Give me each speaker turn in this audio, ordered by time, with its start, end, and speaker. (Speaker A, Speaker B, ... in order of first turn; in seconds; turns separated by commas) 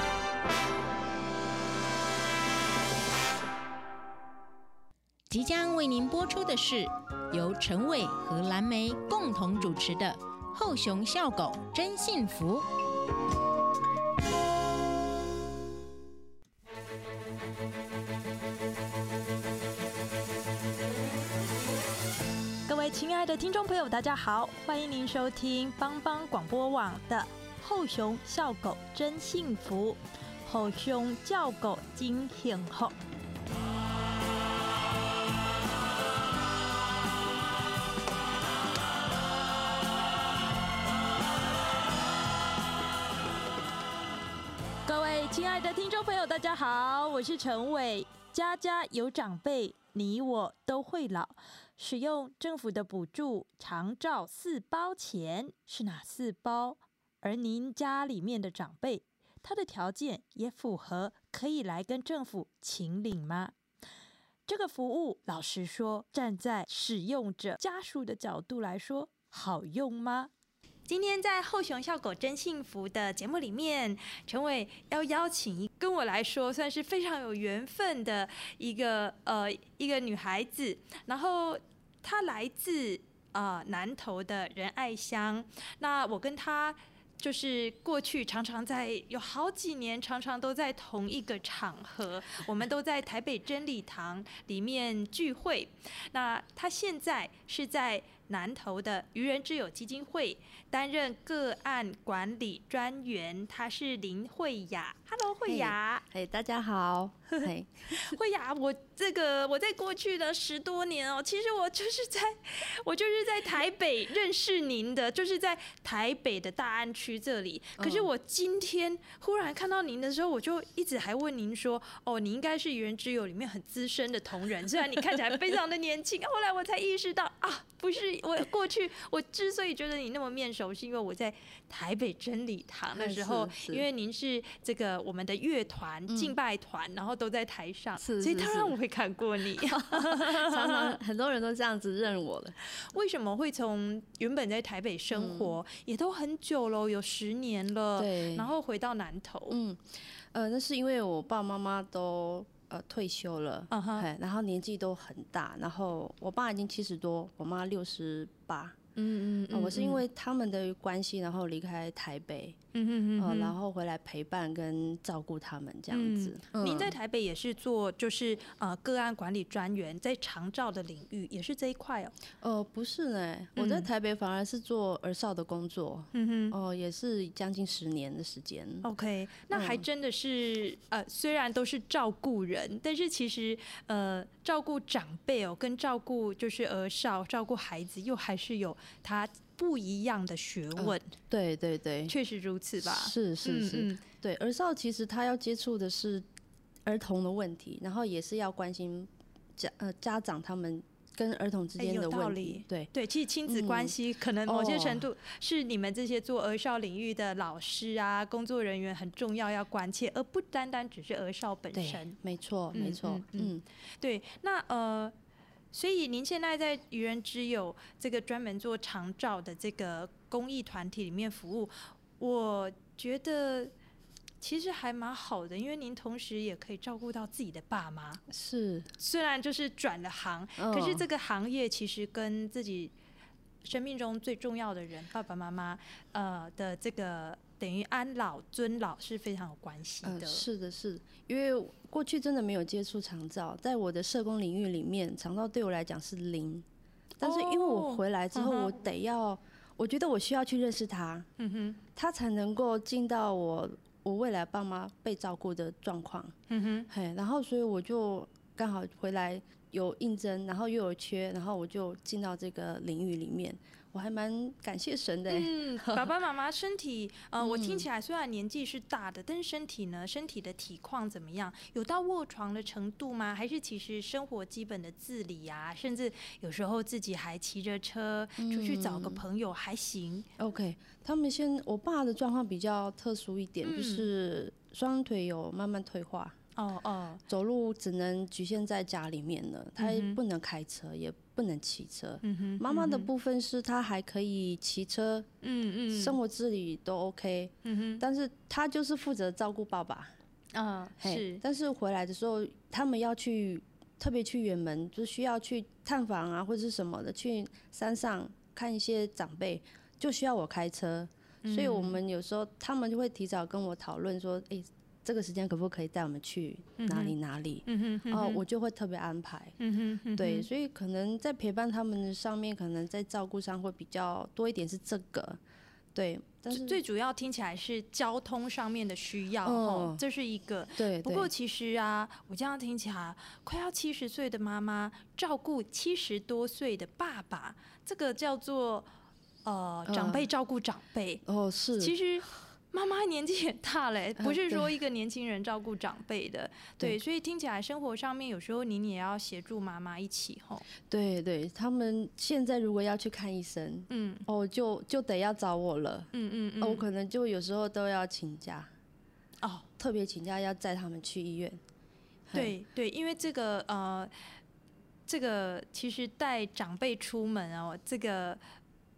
Speaker A: 5.3-12.7, Speaker B: 22.7-33.0, Speaker B: 44.9-63.5, Speaker B: 64.5-70.3, Speaker B: 70.9-106.0, Speaker C: 105.5-108.2, Speaker B: 107.3-141.0, Speaker C: 117.8-118.1, Speaker C: 133.0-133.8, Speaker C: 136.1-136.3, Speaker C: 138.0-138.8, Speaker C: 139.6-142.6, Speaker B: 142.7-149.6, Speaker C: 145.1-145.5, Speaker C: 148.0-148.5, Speaker C: 149.5-158.8, Speaker B: 153.7-154.1, Speaker B: 159.0-160.0, Speaker C: 159.5-162.6, Speaker B: 162.7-163.6, Speaker C: 163.2-166.9, Speaker B: 165.9-172.1, Speaker C: 172.4-178.9, Speaker B: 173.6-173.9, Speaker B: 176.1-176.6, Speaker B: 178.8-191.1, Speaker C: 179.5-179.8, Speaker C: 190.8-192.1, Speaker B: 192.1-194.0, Speaker C: 192.8-196.3, Speaker C: 196.8-202.9, Speaker B: 201.8-212.2, Speaker C: 203.5-205.1, Speaker C: 211.7-213.6, Speaker B: 212.7-215.1, Speaker B: 215.7-223.7, Speaker B: 224.4-228.2, Speaker C: 228.3-228.9, Speaker B: 229.0-232.9, Speaker C: 230.6-231.1, Speaker B: 233.6-240.4, Speaker C: 240.1-246.7, Speaker C: 247.2-251.3, Speaker B: 247.2-248.8, Speaker B: 251.4-251.8, Speaker C: 252.0-256.3, Speaker B: 256.5-256.9, Speaker C: 256.9-266.1, Speaker B: 265.3-280.3, Speaker C: 267.4-267.9, Speaker C: 278.4-279.2, Speaker C: 280.4-286.4, Speaker B: 283.6-284.1, Speaker B: 286.6-287.2, Speaker C: 287.3-295.3, Speaker B: 289.8-290.2, Speaker B: 292.2-293.1, Speaker B: 295.4-296.2, Speaker C: 295.9-300.1, Speaker B: 297.6-298.0, Speaker B: 300.5-301.4, Speaker C: 301.0-319.6, Speaker B: 311.4-312.0, Speaker B: 316.8-317.1, Speaker B: 317.7-318.4, Speaker B: 319.6-320.5, Speaker C: 320.2-325.4, Speaker C: 325.9-326.8, Speaker B: 326.5-338.9, Speaker C: 329.4-330.0, Speaker C: 330.8-331.3, Speaker B: 339.4-341.2, Speaker C: 339.9-340.2, Speaker C: 341.3-341.9, Speaker B: 341.8-350.7, Speaker C: 344.2-344.7, Speaker C: 350.9-358.7, Speaker B: 353.9-354.3, Speaker B: 356.1-356.9, Speaker B: 359.4-359.7, Speaker C: 359.8-361.6, Speaker C: 362.3-362.5, Speaker B: 362.3-364.1, Speaker B: 365.1-368.4